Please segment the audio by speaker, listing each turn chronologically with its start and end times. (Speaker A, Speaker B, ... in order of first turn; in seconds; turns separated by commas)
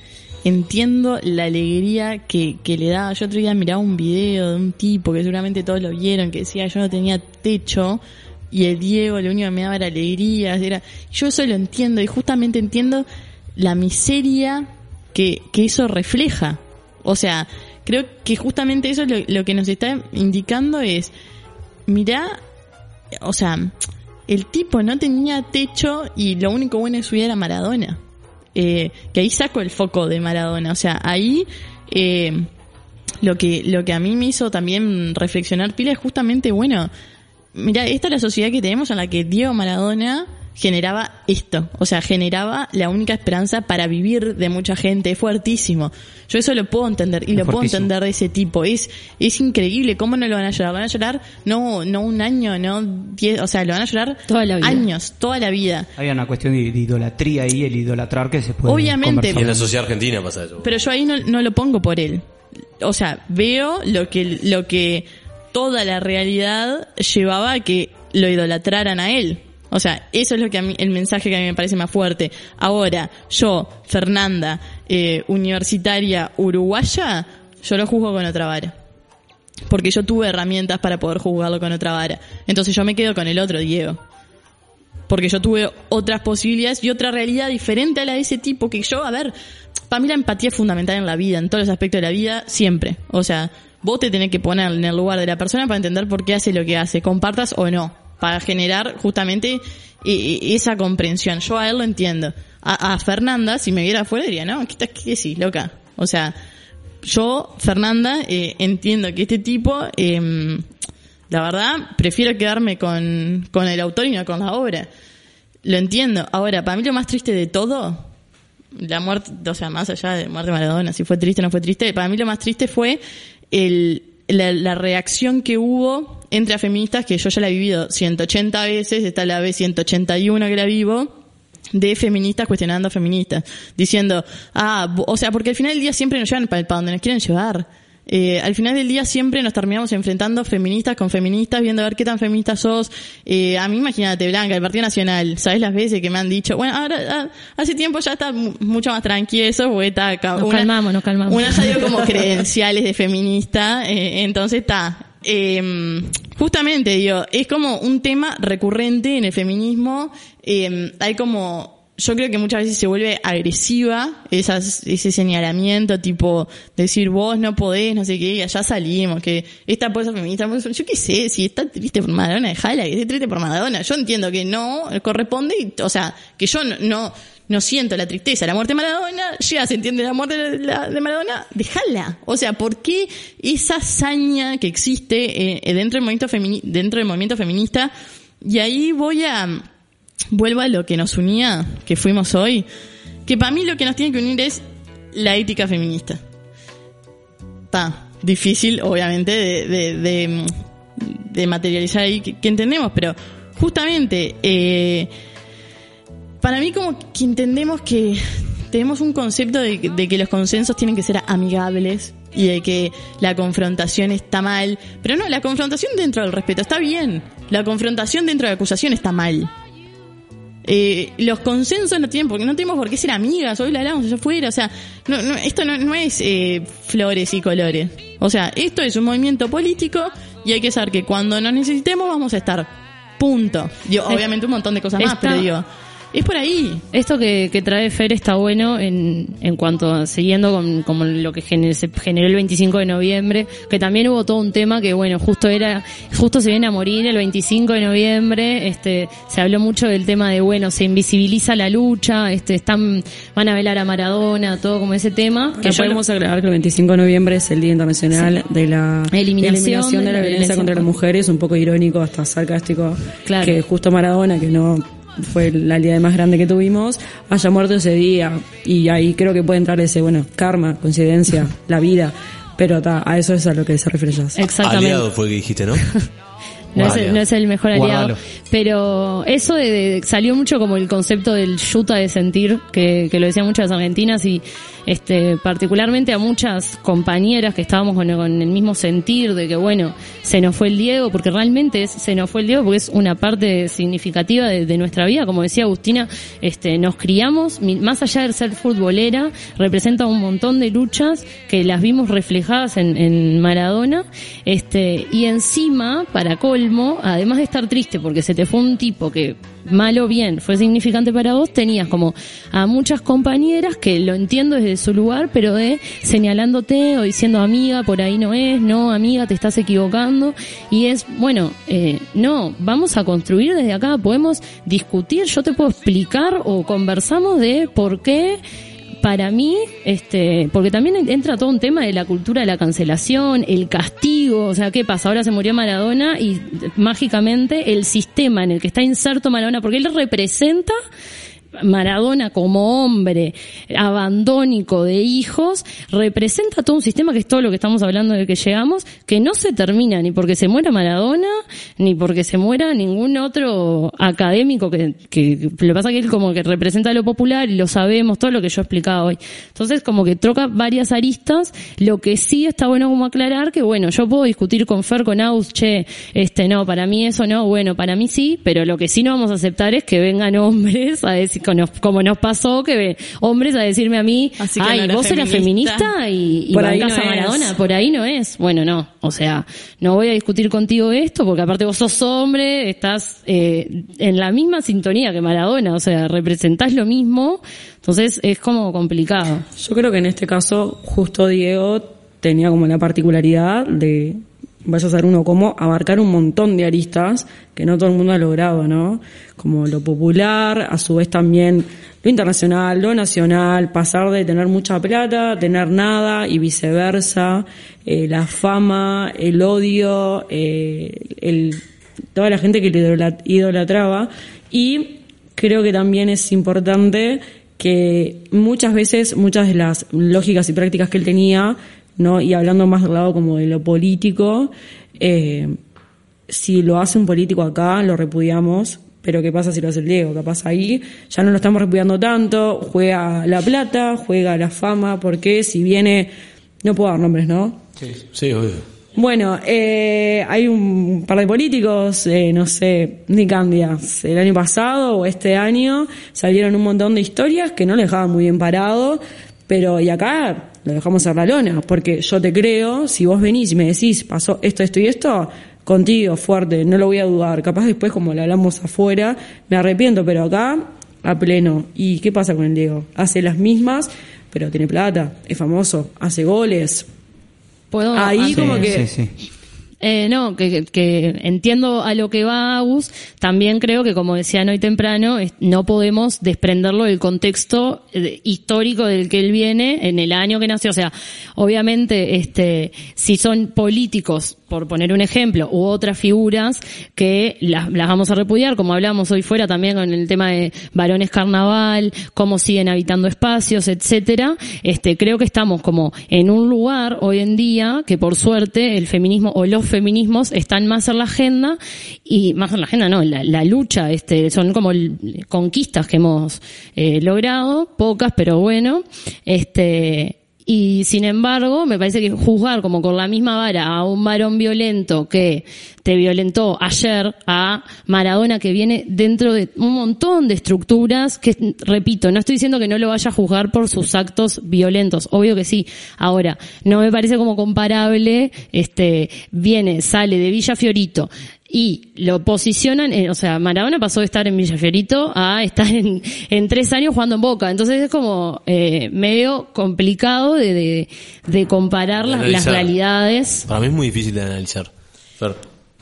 Speaker A: 0.4-21.1, Speaker A: 21.9-22.4, Speaker A: 23.2-23.8, Speaker A: 24.3-28.0, Speaker A: 28.6-32.5, Speaker A: 33.2-36.9, Speaker A: 37.5-55.9, Speaker B: 47.4-47.9, Speaker C: 54.3-54.9, Speaker B: 56.0-59.7, Speaker A: 58.7-59.4, Speaker D: 59.3-60.7, Speaker A: 60.6-62.2, Speaker A: 62.8-78.8, Speaker A: 79.7-84.0, Speaker A: 85.1-89.3, Speaker A: 89.9-106.3, Speaker A: 107.0-110.7, Speaker A: 111.3-114.9, Speaker A: 115.6-118.1, Speaker A: 118.8-131.1, Speaker A: 131.7-150.7, Speaker C: 150.3-152.0, Speaker A: 151.3-189.7, Speaker A: 190.3-192.7, Speaker A: 193.3-196.2, Speaker A: 197.7-205.1, Speaker A: 206.4-219.5, Speaker A: 220.6-236.8, Speaker C: 235.0-235.5, Speaker C: 236.9-256.0, Speaker E: 255.6-274.4, Speaker C: 259.1-260.9, Speaker C: 263.2-263.6, Speaker C: 274.4-275.1, Speaker D: 274.6-275.9, Speaker C: 276.8-328.4, Speaker D: 276.8-277.2, Speaker B: 277.7-278.2, Speaker C: 329.0-340.8, Speaker C: 341.6-389.5, Speaker A: 374.4-375.9, Speaker E: 376.5-377.5, Speaker E: 389.6-411.6, Speaker E: 412.1-425.6, Speaker E: 426.3-436.1, Speaker E: 436.6-437.6, Speaker D: 437.9-438.6, Speaker E: 438.9-466.9, Speaker C: 467.7-468.8, Speaker E: 467.9-468.9, Speaker B: 468.3-469.1, Speaker C: 469.8-543.5, Speaker D: 542.0-542.7, Speaker D: 543.5-545.4